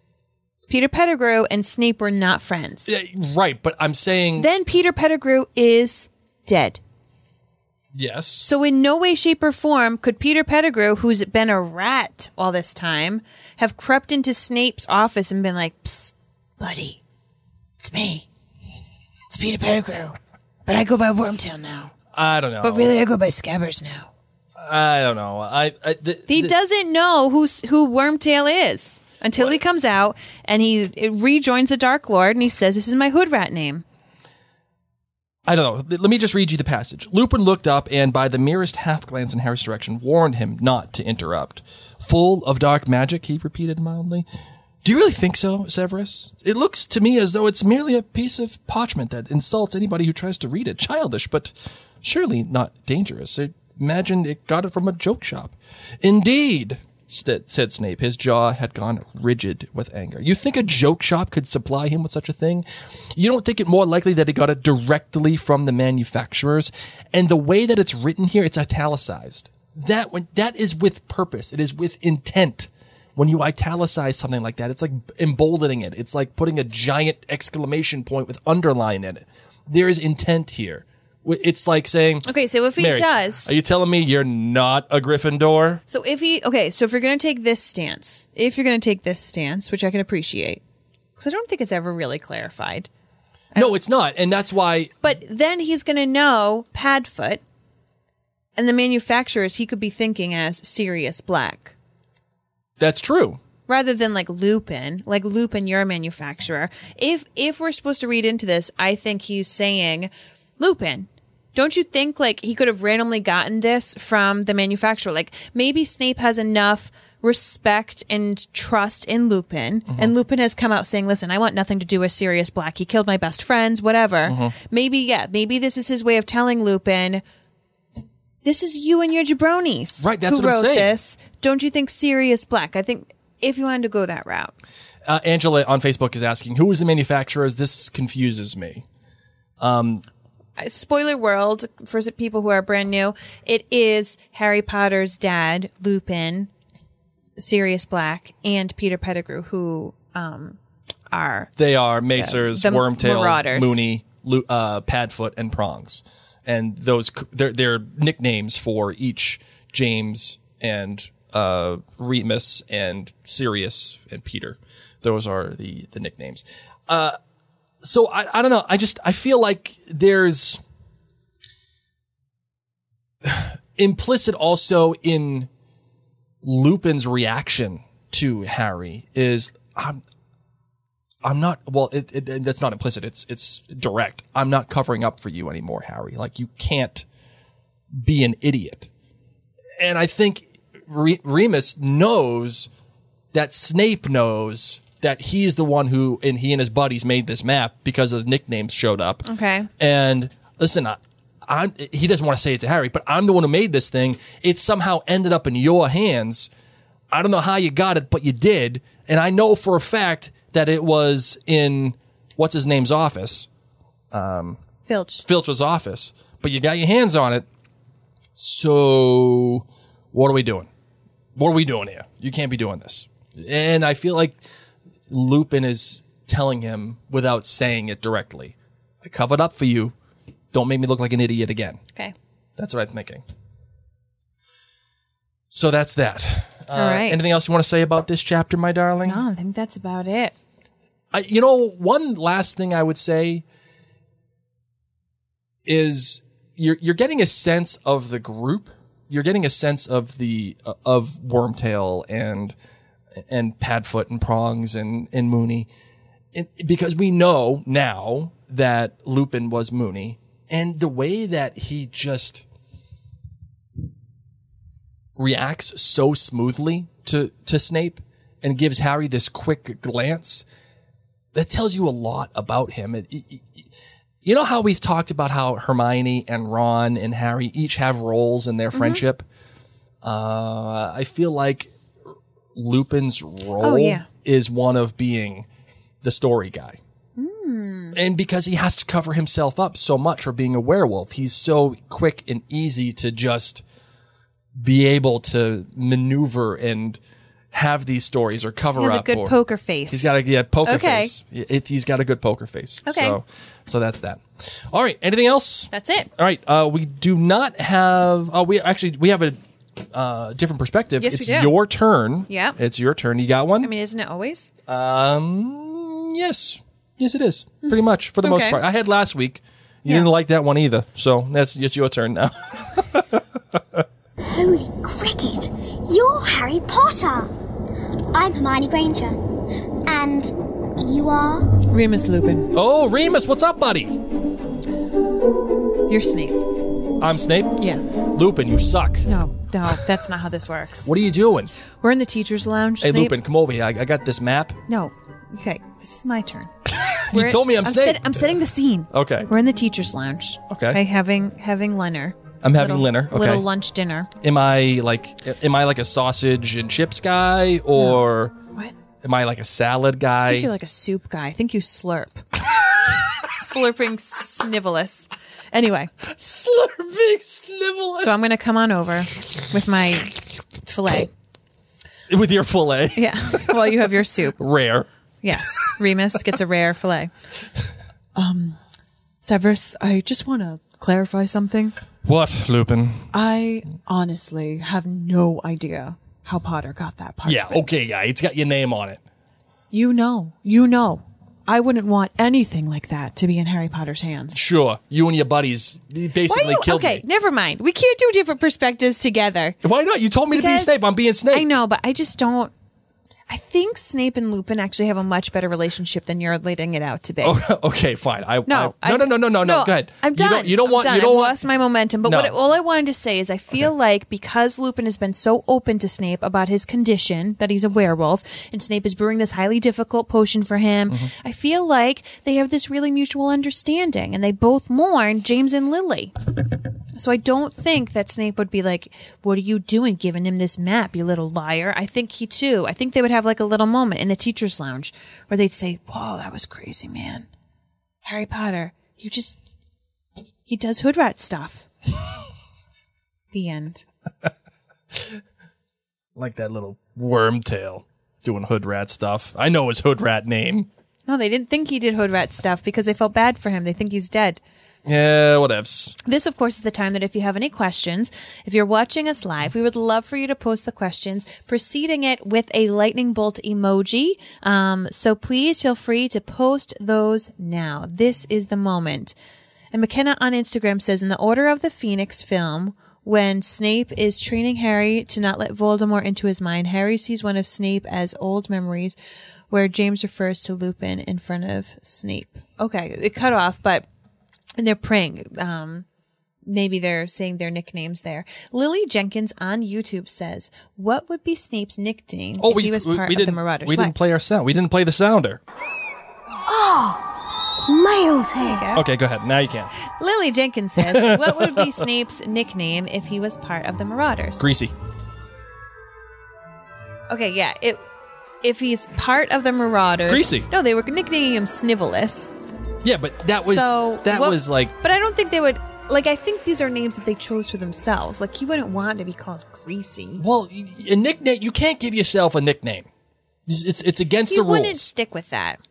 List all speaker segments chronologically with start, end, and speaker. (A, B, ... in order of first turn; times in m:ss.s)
0:00.7-0:03.0 A
0:02.9-0:04.5 B
0:04.4-0:06.8 A
0:07.9-0:08.5 B
0:08.4-0:17.0 A
0:17.8-0:18.3 A
0:19.3-0:21.9 A
0:22.1-0:22.9 B
0:22.6-0:24.1 A
0:24.6-0:26.5 B
0:26.3-0:33.8 A
0:35.4-0:44.2 B
0:44.8-1:25.8 B
1:22.2-1:23.5 A
1:25.9-1:30.6 A
1:31.2-1:32.9 A
1:33.6-1:34.9 B
1:35.0-1:37.4 A
1:38.6-1:41.7 A
1:42.8-1:43.4 B
1:43.7-2:07.2 A
2:04.3-2:04.5 B
2:08.4-2:14.6 A
2:10.0-2:11.0 B
2:15.0-2:18.8 B
2:19.6-2:20.0 B
2:20.6-2:26.5 A
2:27.4-2:30.6 A
2:31.1-2:31.5 A
2:31.6-2:47.2 B
2:32.2-2:33.8 A
2:47.8-2:50.6 B
2:53.2-2:55.5 B
2:56.4-3:00.0 B
3:01.2-3:07.0 B
3:07.9-3:08.9 B
3:09.8-3:12.7 B
3:13.3-3:19.3 B
3:19.2-3:19.7 A
3:19.8-3:26.5 B
3:27.1-3:33.5 B
3:34.1-3:34.6 B
3:34.8-3:35.2 A
3:35.2-3:37.5 B
3:38.4-3:40.7 B
3:41.4-3:44.4 B
3:45.1-3:49.9 B
3:50.5-3:51.8 B
3:52.6-3:53.2 B
3:55.5-3:59.2 B
3:56.7-3:57.2 A
3:59.0-4:00.3 A
4:01.1-4:03.4 B
4:05.6-4:12.5 B
4:13.2-4:15.7 B
4:16.3-4:22.4 B
4:25.2-4:30.4 B
4:31.3-4:33.7 B
4:34.2-4:39.2 B
4:38.7-4:39.0 A
4:40.0-4:41.7 B
4:42.5-4:45.4 B
4:43.6-4:44.1 A
4:46.0-4:46.8 B
4:47.2-4:48.0 A
4:47.9-4:53.6 B
4:54.5-4:57.0 B
4:57.5-4:59.4 B
4:58.8-5:00.1 A
4:59.9-5:09.4 B
5:00.6-5:01.1 A
5:02.8-5:03.2 A
5:05.7-5:06.1 A
5:09.9-5:13.7 B
5:11.0-5:11.5 A
5:12.3-5:12.6 A
5:13.6-5:14.5 A
5:14.7-5:23.8 B
5:18.2-5:18.6 A
5:24.2-5:27.3 C
5:28.1-5:29.2 C
5:29.8-5:31.6 C
5:31.7-5:32.5 A
5:32.5-5:34.0 B
5:35.9-5:36.4 A
5:37.0-5:39.1 B
5:39.0-5:40.9 A
5:40.8-5:41.5 B
5:41.8-5:43.2 A
5:42.8-5:44.6 B
5:44.7-5:46.5 A
5:46.6-5:48.4 B
5:47.1-5:54.1 A
5:48.9-5:49.3 B
5:50.5-5:50.8 B
5:52.4-5:53.4 B
5:54.2-5:58.4 B
5:59.0-6:00.5 B
6:00.2-6:02.3 A
6:03.3-6:05.9 A
6:06.0-6:08.2 B
6:08.0-6:11.1 A
6:12.1-6:13.8 B
6:13.0-6:14.4 A
6:14.4-6:14.9 B
6:15.2-6:17.1 A
6:15.4-6:15.7 B
6:18.1-6:18.6 A
6:19.2-6:21.7 A
6:22.0-6:23.1 B
6:23.1-6:27.8 A
6:27.2-6:29.0 B
6:29.7-6:34.4 A
6:34.3-6:37.0 B
6:36.3-6:39.6 A
6:39.6-6:41.5 B
6:40.3-6:40.8 A
6:41.3-6:42.5 A
6:43.3-6:47.4 A
6:47.2-6:51.4 B
6:48.5-7:06.1 A
6:52.0-6:52.3 B
7:06.9-7:17.3 A
7:18.0-7:19.5 A
7:20.5-7:21.7 A
7:23.3-7:23.8 A
7:24.9-7:25.2 B
7:26.2-7:30.7 B
7:31.1-7:34.4 A
7:34.8-7:36.0 B
7:36.0-7:49.1 A
7:49.7-7:59.0 A
7:59.5-8:03.8 A
8:04.6-8:05.8 A
8:06.4-8:13.9 A
8:12.4-8:15.4 B
8:16.5-8:17.0 C
8:17.6-8:18.6 C
8:18.4-8:18.8 A
8:18.7-8:19.7 B
8:20.0-8:24.5 A
8:20.8-8:21.8 B
8:24.4-8:24.7 B
8:27.1-8:27.9 A
8:28.4-8:32.3 A
8:30.1-8:30.5 B
8:32.8-8:34.7 B
8:33.4-8:40.2 A
8:40.2-8:42.9 B
8:43.5-8:44.8 B
8:44.3-8:45.6 A